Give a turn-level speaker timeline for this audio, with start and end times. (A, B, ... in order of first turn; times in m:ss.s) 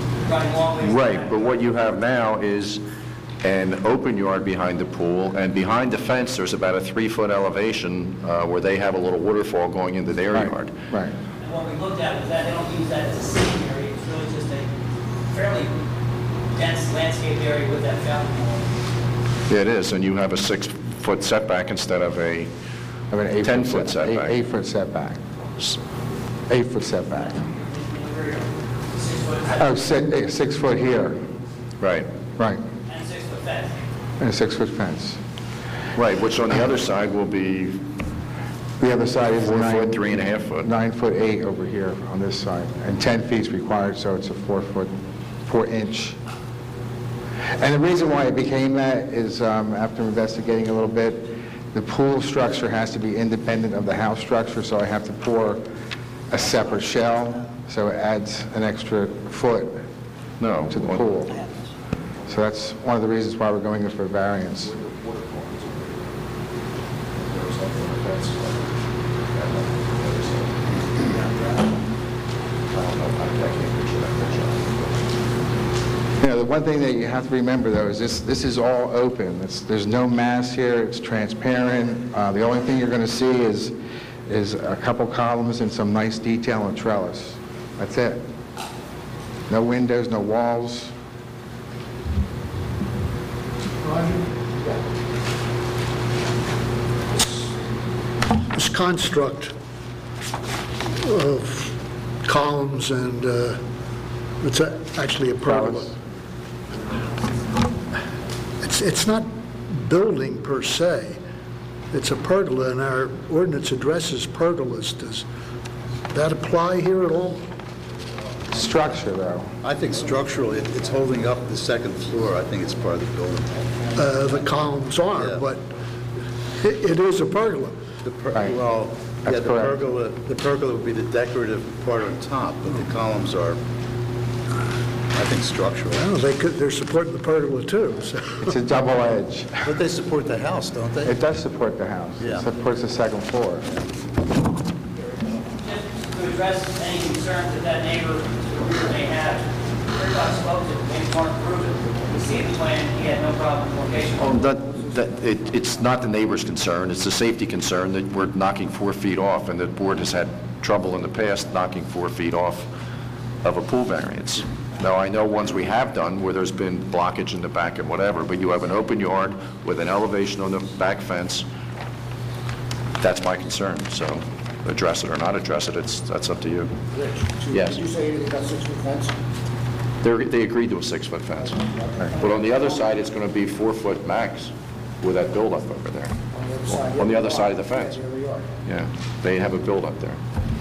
0:00.2-0:01.6 A
0:00.8-0:02.8 B
0:03.4-0:10.7 B
0:10.3-0:11.1 C
0:11.4-0:14.7 A
0:15.2-0:15.8 A
0:16.5-0:18.7 A
0:19.5-0:22.5 B
0:23.1-0:25.2 C
0:23.4-0:24.4 B
0:26.5-0:27.4 C
0:27.4-0:29.7 A
0:29.6-0:31.2 C
0:31.8-0:32.1 B
0:32.9-0:33.8 A
0:34.2-0:35.2 C
0:36.0-0:37.8 B
0:38.8-0:44.9 C
0:39.4-0:40.7 B
0:45.5-0:46.2 C
0:47.6-0:55.6 C
0:56.3-0:59.8 C
1:00.4-1:01.1 B
1:00.7-1:01.4 C
1:02.3-1:04.7 C
1:04.7-1:06.1 B
1:07.1-1:11.3 B
1:12.7-1:15.1 B
1:16.2-1:23.7 C
1:24.3-1:28.2 C
1:29.5-1:30.9 C
1:38.5-1:39.5 D
1:40.9-1:43.6 D
1:44.4-1:46.0 D
1:45.5-1:45.8 C
1:48.6-1:51.2 D
1:51.9-1:55.3 D
1:56.1-1:57.5 D
1:58.5-1:59.5 C
1:59.6-2:03.7 E
2:03.9-2:05.7 D
2:05.2-2:05.5 E
2:06.6-2:07.9 D
2:08.0-2:13.6 E
2:09.2-2:09.8 C
2:15.1-2:16.1 E
2:15.9-2:18.6 D
2:18.4-2:19.6 C
2:19.6-2:21.1 E
2:21.0-2:23.7 C
2:22.2-2:22.5 E
2:25.6-2:34.4 A
2:34.2-2:42.7 B
2:43.4-2:51.5 B
2:53.0-2:56.8 B
2:56.9-2:59.1 F
2:57.5-2:57.8 B
3:00.0-3:06.2 B
3:01.6-3:02.4 F
3:06.3-3:08.5 F
3:06.7-3:08.0 B
3:08.6-3:10.2 B